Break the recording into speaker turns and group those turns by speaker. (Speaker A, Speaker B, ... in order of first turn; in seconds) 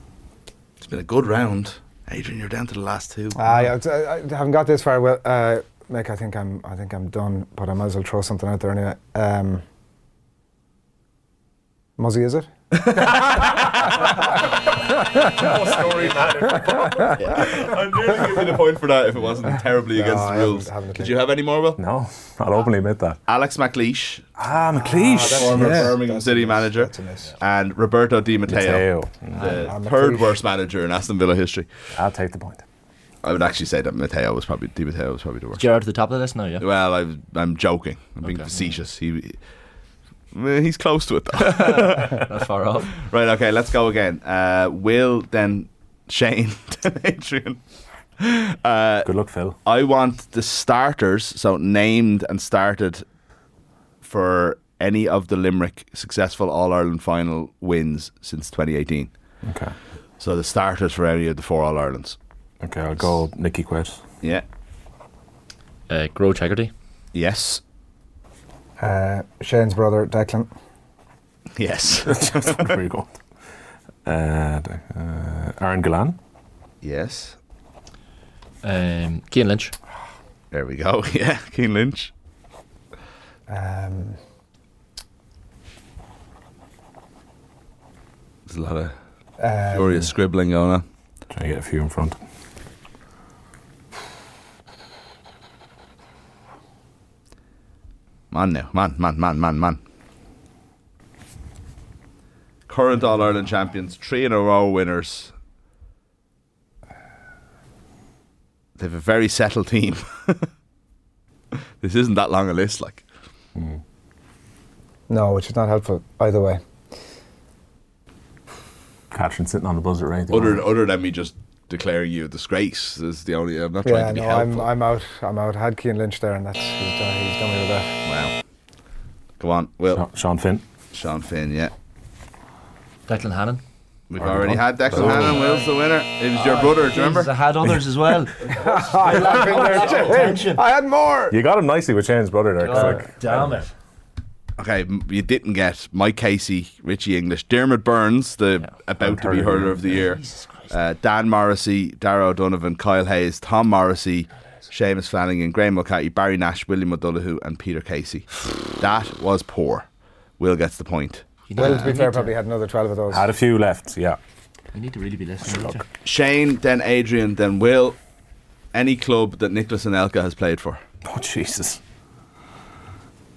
Speaker A: 0.8-3.7, 12.9-13.3, 17.3-21.8, 23.3-24.3, 25.0-31.7, 33.2-35.6, 36.6-39.4, 40.3-42.3, 43.0-47.6, 48.2-49.1, 49.6-53.0, 54.0-59.1, 60.2-62.2, 67.1-67.6, 71.6-72.8, 76.8-77.4, 80.5-82.1, 88.5-89.0, 89.7-90.8, 98.3-99.8, 102.7-105.3, 108.8-110.5, 111.8-113.0, 120.3-124.7, 128.1-128.3, 129.4-130.1, 130.9-131.7, 134.1-137.3, 139.1-140.2, 144.6-159.9, 160.4-161.9, 166.0-168.0, 168.7-170.8
Speaker B: 3.4-9.6, 12.0-12.5, 19.9-21.2, 24.7-27.3, 29.6-30.4, 68.8-70.5, 83.5-84.2, 89.4-90.1, 115.1-116.6, 123.8-127.9, 138.5-141.4, 161.6-163.3
Speaker C: 14.7-17.7, 21.8-23.2, 24.4-26.0, 28.5-29.6, 31.9-32.6, 49.0-49.6, 59.4-59.7, 62.6-64.0, 72.1-73.2, 74.0-76.2, 91.3-92.2, 119.1-120.7, 129.9-130.6, 134.2-135.5, 141.3-143.6, 149.0-150.0, 163.1-164.2, 165.5-165.8, 171.1-171.8
Speaker D: 35.6-36.7, 38.2-38.8, 41.4-43.0, 65.9-66.7, 78.6-79.8, 133.1-133.6, 135.0-135.7, 136.3-140.6, 142.6-143.7, 149.8-150.7, 161.5-162.3, 164.7-165.8